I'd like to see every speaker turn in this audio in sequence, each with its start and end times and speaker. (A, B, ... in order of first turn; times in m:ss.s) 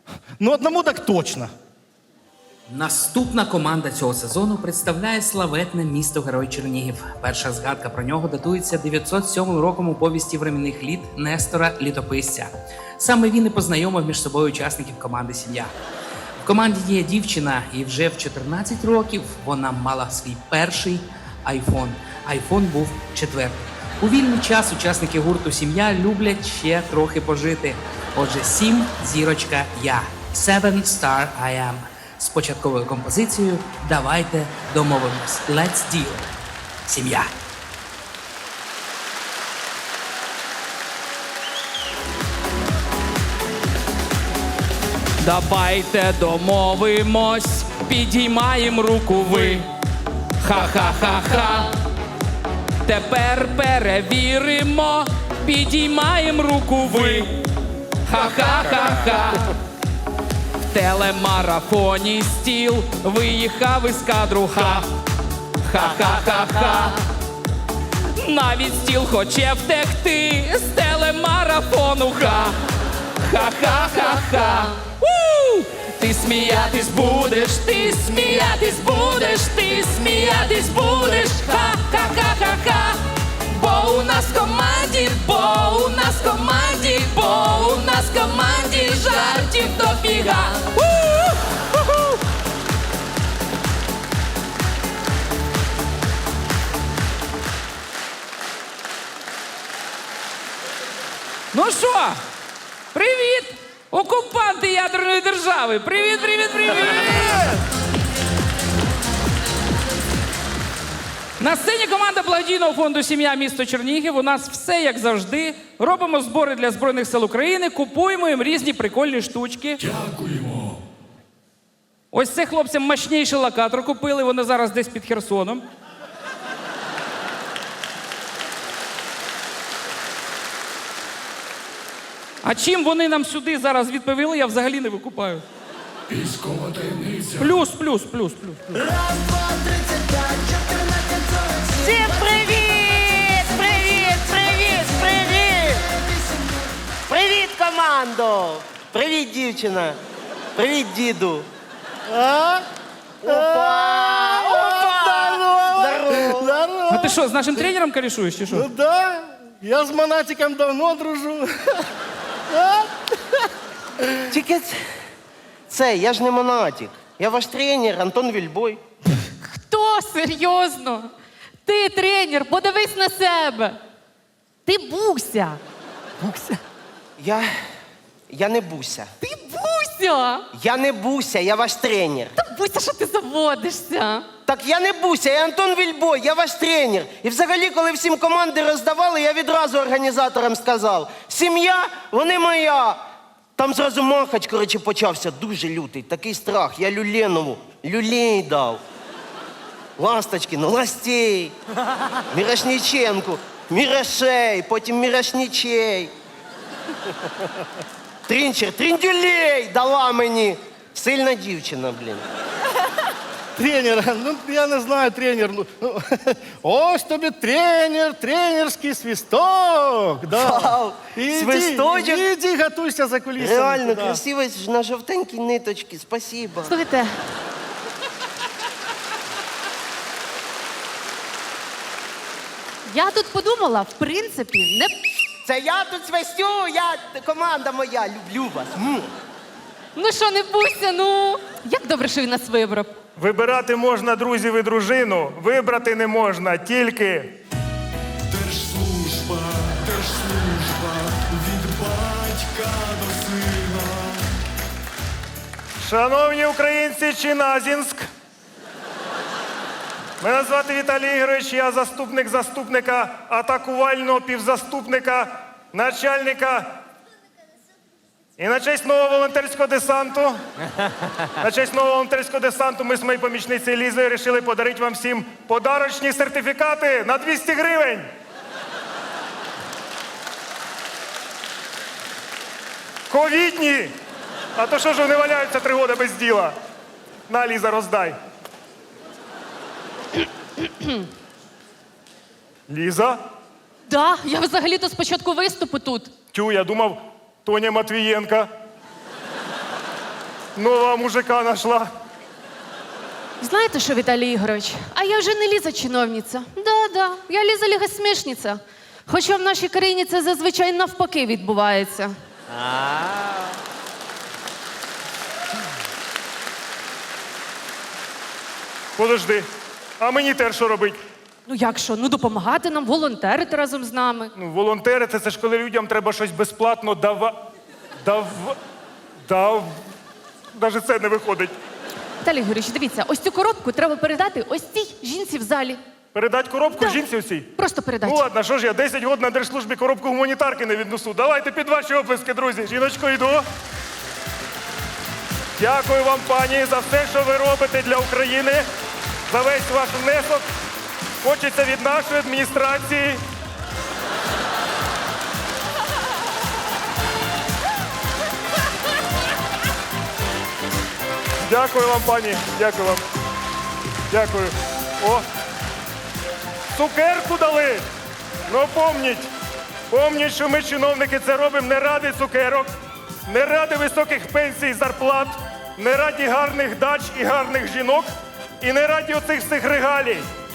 0:00.4-0:01.5 A
0:02.7-0:15.7 B
0:16.4-0:36.3 B
0:36.9-0:37.3 B
0:45.2-0:49.7 C
0:50.4-0:51.7 C
0:52.8-0:57.3 C
0:58.0-0:59.5 C
1:00.7-1:04.9 C
1:05.6-1:07.0 C
1:08.2-1:12.6 C
1:13.2-1:23.0 C
1:23.5-1:31.6 C
1:41.5-1:42.2 C
1:42.9-1:47.5 C
1:51.4-1:59.8 C
2:02.1-2:05.6 C
2:12.4-2:15.4 C
2:17.3-2:18.9 C
2:19.2-2:19.8 D
2:21.6-2:25.9 D
2:27.1-2:30.0 D
2:30.6-2:31.5 D
2:32.1-2:32.6 A
2:33.2-2:36.6 D
2:33.2-2:37.2 A
2:36.9-2:38.7 C
2:38.5-2:41.8 A
2:42.5-2:42.9 A
2:44.3-2:44.8 D
2:45.7-2:48.8 D
2:49.2-2:51.1 E
2:51.6-2:53.8 E
2:54.7-2:55.6 E
2:56.2-2:56.6 E
2:57.2-2:57.5 D
2:58.3-2:59.1 D
2:59.2-3:00.4 E
3:00.5-3:02.3 D
3:02.4-3:04.3 E
3:04.5-3:13.0 D
3:13.6-3:18.8 D
3:20.0-3:21.6 D
3:22.3-3:26.1 D
3:28.3-3:32.2 D
3:33.6-3:44.2 A
3:40.3-3:42.3 D
3:43.4-3:46.8 D
3:46.7-3:47.2 E
3:52.8-3:54.9 E
3:55.4-3:59.1 D
4:00.0-4:03.0 E
4:03.2-4:07.4 F
4:08.3-4:14.1 G
4:15.8-4:18.1 F
4:20.2-4:26.8 F
4:28.4-4:30.4 F
4:31.4-4:38.1 F
4:43.1-4:43.9 F
4:44.6-4:46.6 F
4:47.3-4:48.2 F
4:50.6-4:51.0 E
4:52.7-4:53.2 F
4:53.9-4:56.1 E
4:56.3-4:58.5 F
5:00.6-5:01.9 F
5:03.4-5:12.1 E
5:12.5-5:13.3 D
5:19.0-5:19.5 F
5:20.0-5:21.0 F
5:21.5-5:24.3 E
5:24.4-5:27.4 F
5:28.0-5:28.6 F
5:29.3-5:29.8 F
5:30.5-5:31.5 F
5:32.2-5:35.8 E
5:36.2-5:37.5 F
5:37.6-5:38.3 E
5:38.1-5:43.4 F
5:45.6-5:48.7 F
5:49.3-5:50.5 F
5:51.2-5:53.2 F
6:01.5-6:03.0 F
6:04.1-6:05.2 F
6:06.7-6:07.9 F
6:08.5-6:09.3 F
6:09.9-6:12.7 F
6:13.3-6:18.1 F
6:18.6-6:20.3 F